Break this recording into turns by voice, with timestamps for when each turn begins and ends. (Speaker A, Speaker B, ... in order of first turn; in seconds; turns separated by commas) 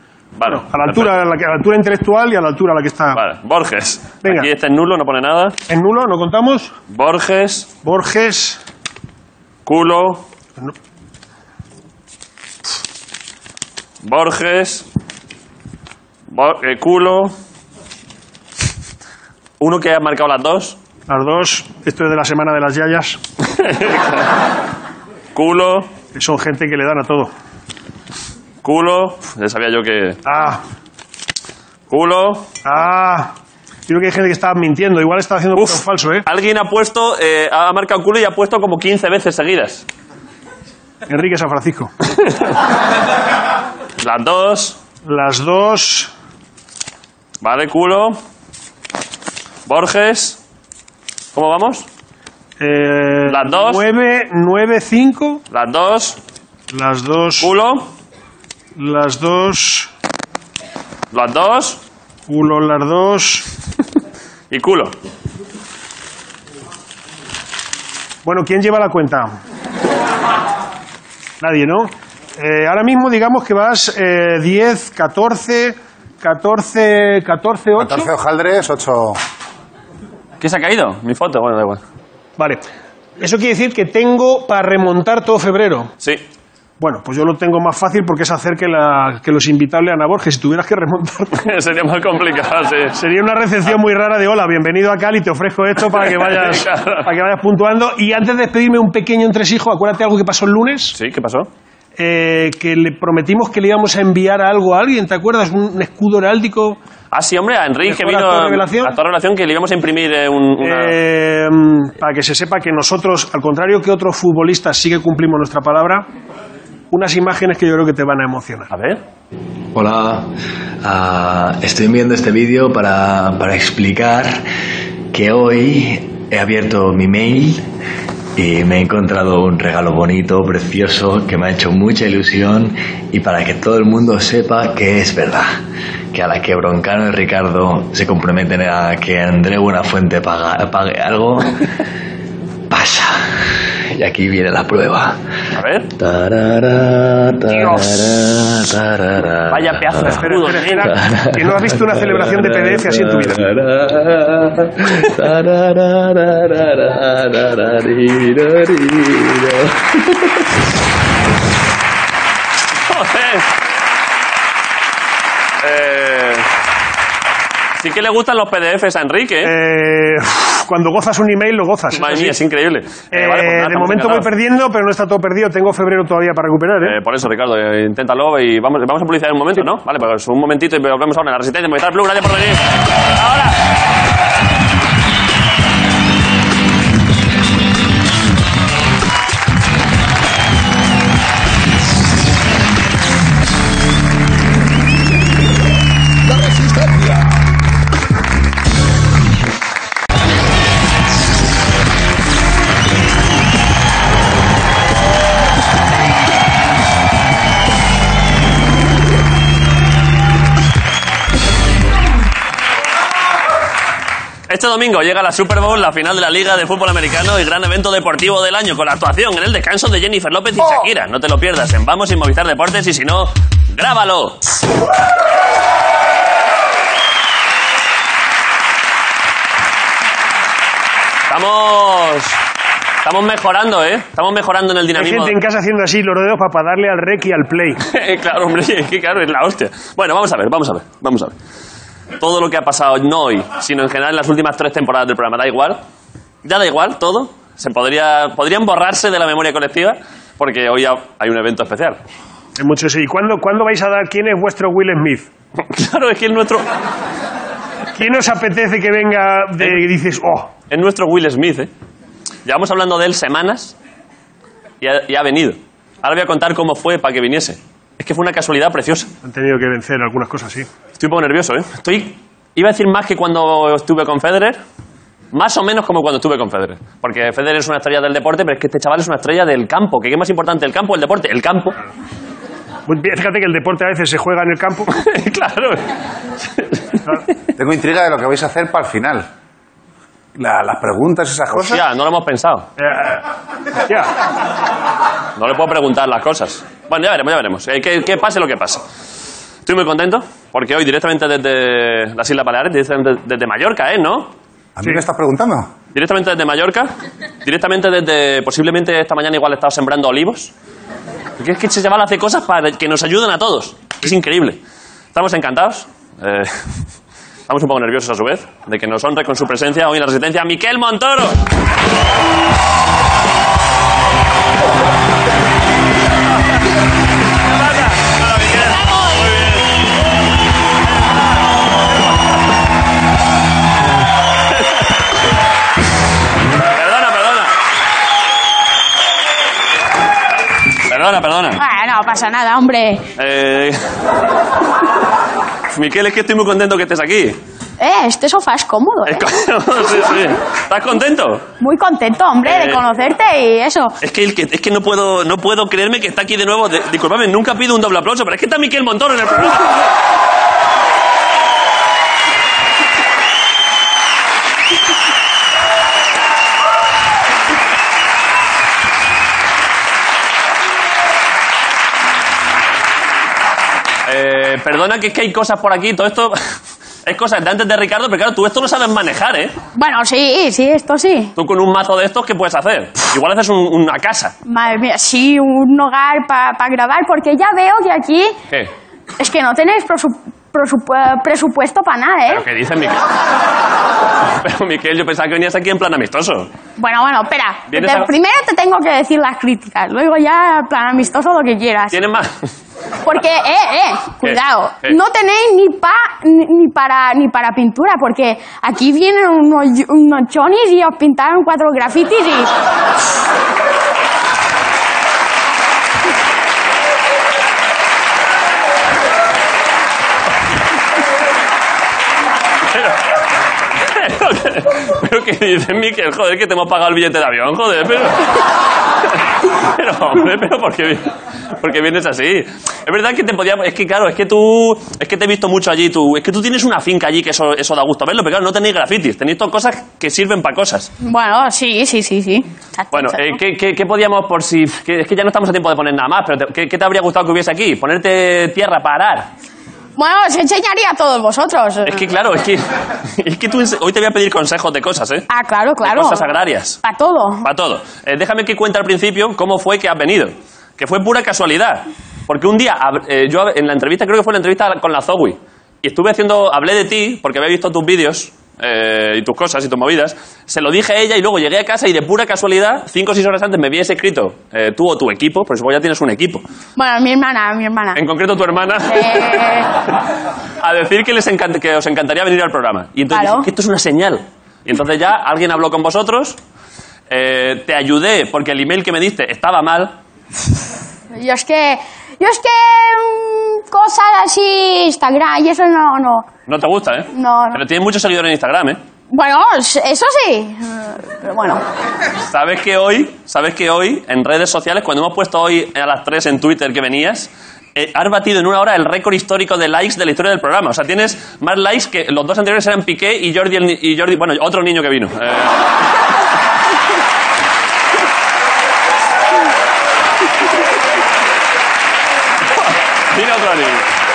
Speaker A: 0.4-1.1, Speaker B: 0.5-3.2, Speaker A: 3.1-5.6, Speaker B: 4.2-4.5, Speaker B: 5.7-6.7, Speaker A: 6.9-7.7, Speaker B: 7.8-8.6, Speaker A: 9.7-10.2, Speaker A: 14.0-14.9, Speaker A: 16.3-17.3, Speaker A: 19.6-20.8, Speaker B: 21.1-23.2, Speaker A: 23.6-24.3, Speaker A: 25.3-25.9, Speaker B: 26.1-27.3, Speaker A: 28.6-30.2, Speaker B: 30.2-30.6, Speaker A: 31.9-32.5, Speaker B: 32.6-33.3, Speaker B: 33.9-36.2, Speaker A: 35.5-39.9, Speaker B: 41.1-41.9, Speaker A: 44.0-44.8, Speaker B: 45.0-46.1, Speaker A: 47.4-48.2, Speaker A: 49.6-50.4, Speaker A: 51.3-51.9, Speaker B: 52.6-55.4, Speaker A: 53.3-53.8, Speaker A: 55.5-56.2, Speaker B: 56.7-57.5, Speaker A: 57.4-57.9, Speaker B: 58.8-59.9, Speaker A: 61.1-61.8, Speaker B: 62.3-63.5, Speaker A: 64.5-64.9, Speaker B: 68.2-69.3, Speaker B: 71.4-78.1, Speaker C: 77.8-79.2, Speaker A: 80.4-81.8, Speaker B: 83.2-85.9, Speaker B: 86.8-91.5, Speaker A: 91.3-93.0, Speaker B: 93.0-101.0, Speaker A: 95.8-97.1, Speaker A: 101.0-101.5, Speaker B: 102.0-106.8, Speaker A: 107.1-111.0, Speaker B: 107.9-109.0, Speaker B: 110.6-116.1, Speaker B: 116.9-118.7, Speaker A: 118.7-119.0, Speaker D: 119.7-120.3, Speaker D: 120.8-124.4, Speaker D: 125.1-127.7, Speaker D: 128.4-135.5, Speaker D: 136.1-141.7, Speaker D: 142.7-145.2, Speaker A: 145.5-145.9, Speaker D: 146.0-150.3, Speaker B: 147.5-148.0, Speaker A: 149.5-150.9, Speaker B: 150.2-153.4, Speaker D: 150.8-160.5, Speaker A: 162.9-163.5, Speaker A: 165.6-166.5, Speaker A: 167.8-169.5, Speaker B: 169.4-172.4, Speaker A: 171.9-174.3, Speaker B: 173.1-177.0, Speaker A: 176.8-183.6, Speaker A: 214.5-224.5, Speaker A: 231.3-232.4, Speaker A: 233.0-235.4, Speaker B: 234.9-237.8, Speaker A: 237.8-241.4, Speaker A: 242.2-245.8, Speaker A: 246.4-252.0, Speaker B: 252.6-255.3, Speaker A: 255.6-256.7, Speaker B: 257.9-260.5, Speaker A: 260.7-261.7, Speaker A: 262.4-263.8, Speaker A: 264.8-269.1, Speaker B: 269.2-270.7, Speaker A: 271.0-274.6, Speaker A: 275.3-281.8, Speaker B: 282.9-284.9, Speaker A: 284.9-285.8, Speaker A: 286.4-287.0, Speaker C: 287.6-289.2, Speaker C: 290.4-291.8, Speaker A: 291.6-292.7, Speaker B: 292.8-293.2, Speaker A: 295.4-298.8, Speaker A: 299.6-304.3, Speaker C: 304.8-305.7, Speaker A: 305.9-306.9, Speaker A: 307.4-310.5, Speaker A: 311.4-314.6, Speaker A: 315.1-316.8, Speaker A: 317.5-321.4, Speaker A: 327.4-329.8, Speaker A: 330.9-332.1, Speaker A: 336.7-337.5, Speaker A: 340.9-341.6, Speaker E: 341.6-343.1, Speaker A: 343.2-343.8, Speaker A: 345.7-347.4, Speaker E: 347.8-349.3, Speaker A: 349.1-351.5, Speaker E: 351.6-354.0, Speaker A: 352.4-352.8, Speaker A: 354.0-359.9, Speaker A: 374.1-376.4, Speaker A: 377.1-379.6, Speaker E: 379.8-381.3, Speaker A: 381.4-384.3, Speaker E: 384.4-388.4, Speaker E: 389.2-392.4, Speaker A: 392.3-393.0, Speaker A: 394.4-396.5, Speaker E: 396.8-402.0, Speaker A: 397.7-398.1, Speaker A: 401.9-402.3, Speaker E: 403.0-412.5, Speaker A: 404.2-405.0, Speaker A: 422.7-423.0, Speaker A: 423.8-428.4, Speaker A: 429.4-440.9, Speaker E: 441.0-443.4, Speaker A: 442.9-449.3, Speaker E: 450.0-452.0, Speaker A: 451.9-455.3, Speaker E: 455.3-456.3, Speaker A: 455.8-456.8, Speaker E: 456.8-457.5, Speaker A: 457.4-476.4, Speaker E: 476.8-478.0, Speaker A: 477.9-479.4, Speaker E: 478.9-479.7, Speaker A: 480.6-486.4, Speaker E: 483.1-483.5, Speaker A: 487.1-489.9, Speaker E: 491.1-496.3, Speaker A: 496.5-498.8, Speaker E: 497.1-497.6, Speaker E: 499.1-501.6, Speaker A: 502.2-515.6, Speaker A: 522.5-523.9